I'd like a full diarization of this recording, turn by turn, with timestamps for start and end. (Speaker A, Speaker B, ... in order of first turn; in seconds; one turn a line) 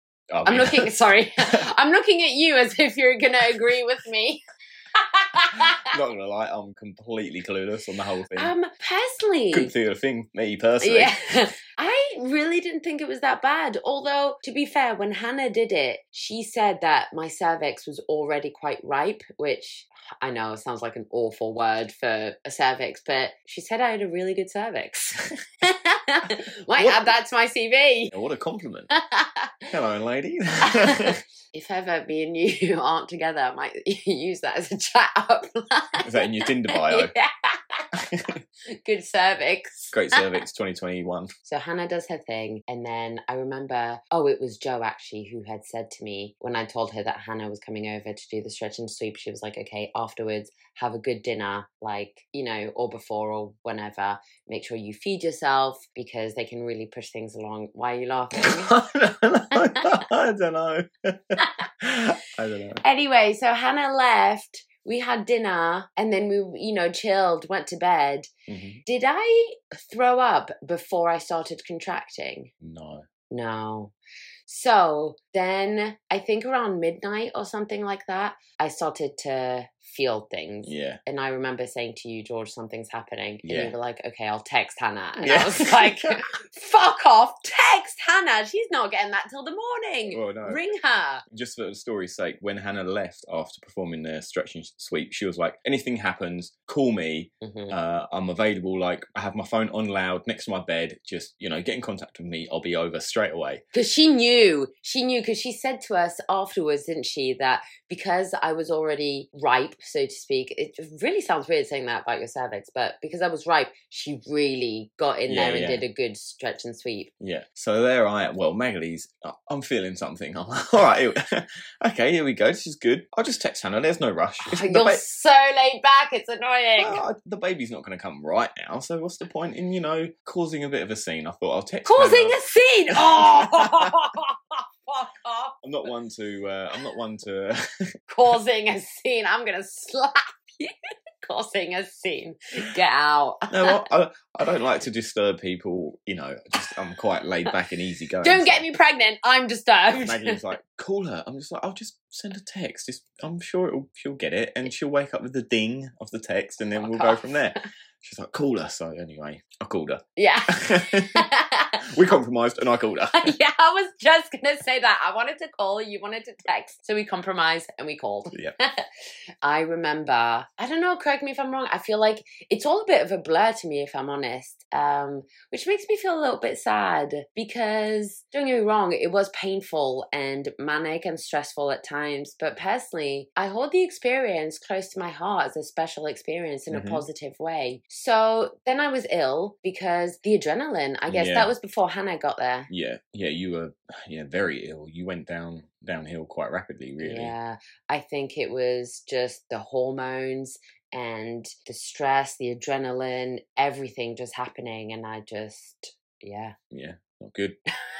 Speaker A: 0.3-0.9
Speaker B: 0.4-4.4
Speaker B: 4.9-5.9
Speaker A: 5.8-8.5
Speaker B: 8.3-9.7
Speaker A: 9.5-11.4
Speaker B: 10.8-28.1
Speaker A: 26.8-27.1
Speaker A: 28.1-28.9
Speaker B: 29.0-29.6
Speaker A: 29.7-31.2
Speaker B: 30.6-37.9
Speaker A: 36.0-37.1
Speaker A: 37.9-38.4
Speaker B: 38.8-40.3
Speaker A: 39.9-41.3
Speaker B: 41.4-58.7
Speaker A: 58.4-62.8
Speaker B: 59.5-60.0
Speaker B: 62.8-68.3
Speaker A: 68.5-68.8
Speaker B: 68.8-72.5
Speaker A: 72.6-73.0
Speaker B: 73.3-73.9
Speaker B: 74.5-91.2
Speaker A: 80.6-81.0
Speaker A: 83.4-83.7
Speaker A: 85.2-86.2
Speaker A: 90.1-90.6
Speaker A: 91.3-103.6
Speaker B: 97.4-97.7
Speaker B: 103.7-117.1
Speaker A: 115.3-115.8
Speaker A: 117.2-125.0
Speaker B: 124.4-127.0
Speaker A: 126.8-132.3
Speaker B: 131.8-135.5
Speaker A: 132.9-133.9
Speaker A: 135.6-137.6
Speaker B: 138.1-140.7
Speaker B: 141.2-143.8
Speaker A: 143.5-148.7
Speaker B: 148.2-150.4
Speaker A: 149.9-161.3
Speaker B: 156.8-157.6
Speaker B: 160.2-161.9
Speaker A: 161.8-163.3
Speaker B: 163.1-168.8
Speaker B: 169.4-192.7
Speaker A: 186.7-187.1
Speaker A: 191.1-191.5
Speaker A: 192.7-197.3
Speaker B: 197.0-206.5
Speaker A: 206.7-207.6